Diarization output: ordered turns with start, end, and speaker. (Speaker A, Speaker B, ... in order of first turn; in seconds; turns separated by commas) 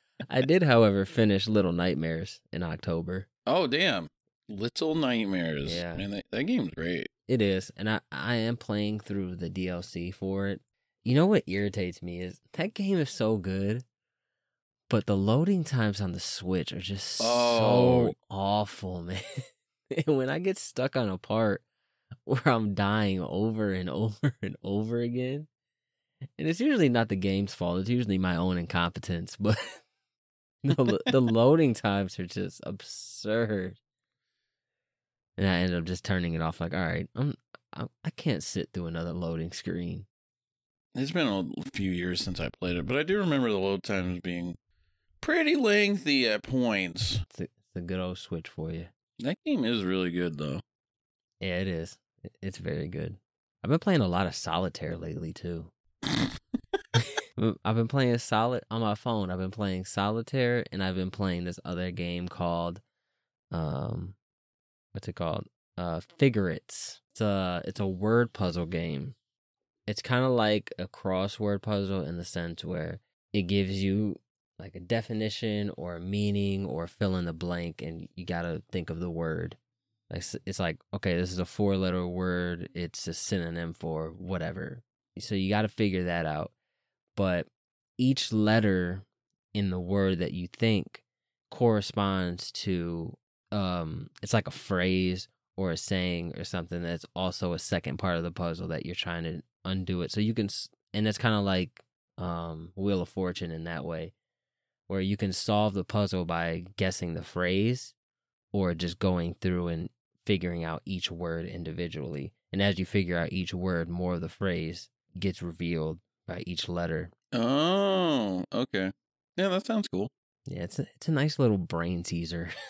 Speaker A: 0.2-3.3, Speaker B: 3.5-7.1, Speaker A: 5.6-6.0, Speaker A: 7.3-13.8, Speaker A: 14.9-19.2, Speaker B: 17.2-18.1, Speaker A: 19.9-21.6, Speaker A: 22.2-25.5, Speaker A: 26.4-29.8, Speaker A: 30.6-33.8, Speaker A: 35.4-40.1, Speaker B: 40.9-44.6, Speaker B: 45.2-47.2, Speaker A: 47.3-48.9, Speaker B: 49.2-50.6, Speaker A: 51.4-55.7, Speaker A: 57.4-62.8, Speaker A: 63.5-64.2, Speaker A: 64.9-69.2, Speaker A: 69.9-79.6, Speaker A: 80.1-86.5, Speaker A: 87.2-87.5, Speaker A: 88.0-104.1, Speaker A: 104.9-107.9, Speaker A: 108.5-117.1, Speaker B: 117.3-120.1, Speaker A: 120.5-122.5